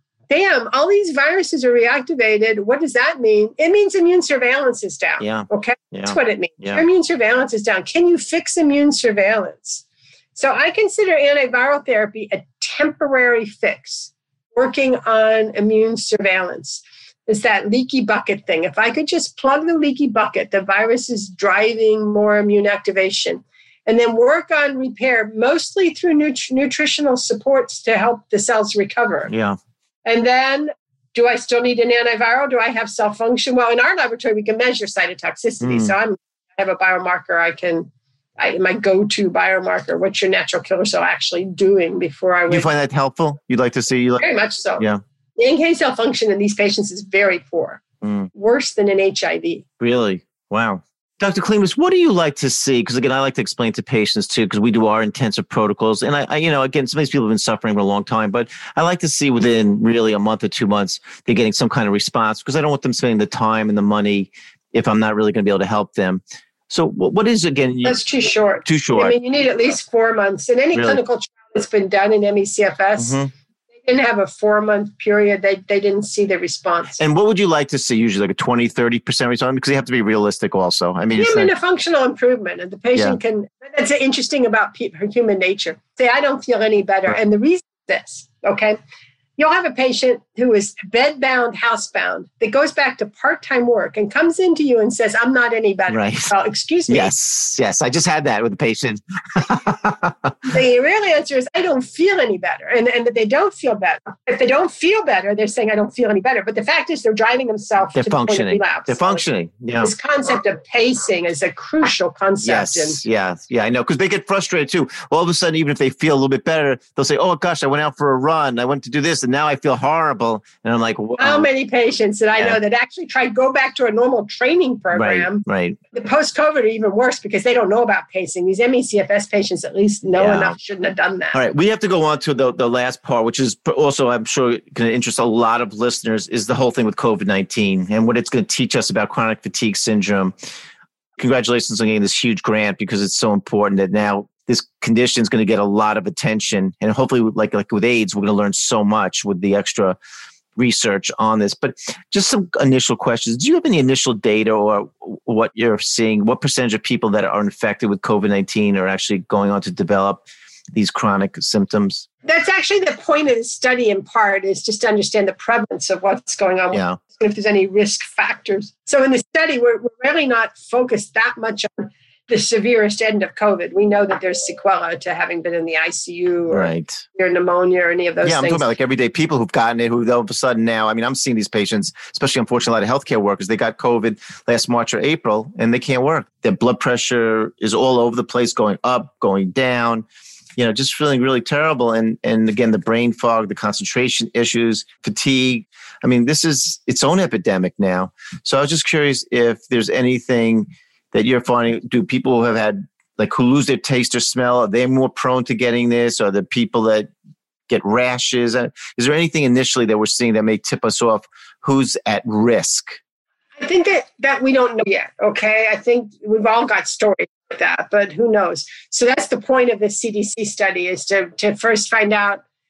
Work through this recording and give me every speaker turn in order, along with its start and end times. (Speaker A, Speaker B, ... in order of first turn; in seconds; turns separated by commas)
Speaker A: 0.3-9.8, Speaker B: 5.2-6.8, Speaker A: 10.3-29.3, Speaker B: 29.3-29.6, Speaker A: 30.0-42.7, Speaker B: 35.6-35.9, Speaker B: 42.5-44.3, Speaker A: 44.2-44.9, Speaker A: 45.4-49.6, Speaker B: 48.0-48.3, Speaker B: 49.8-68.0, Speaker A: 67.8-73.2, Speaker B: 68.6-69.2, Speaker B: 70.7-71.0, Speaker B: 73.0-73.3, Speaker A: 73.8-77.0, Speaker B: 77.0-81.5, Speaker A: 81.1-88.8, Speaker A: 89.4-97.1, Speaker B: 95.9-96.3, Speaker B: 96.9-100.5, Speaker A: 100.4-109.2, Speaker B: 108.0-109.9, Speaker A: 109.8-113.0, Speaker B: 112.4-121.5, Speaker A: 121.2-131.4, Speaker B: 124.9-125.8, Speaker B: 130.2-130.6, Speaker B: 131.3-140.3, Speaker B: 141.2-150.0, Speaker B: 150.6-162.1, Speaker A: 162.2-178.7, Speaker B: 166.7-167.0, Speaker B: 176.5-177.0, Speaker B: 178.2-190.1, Speaker B: 190.6-207.1, Speaker B: 207.7-213.0, Speaker A: 213.6-222.4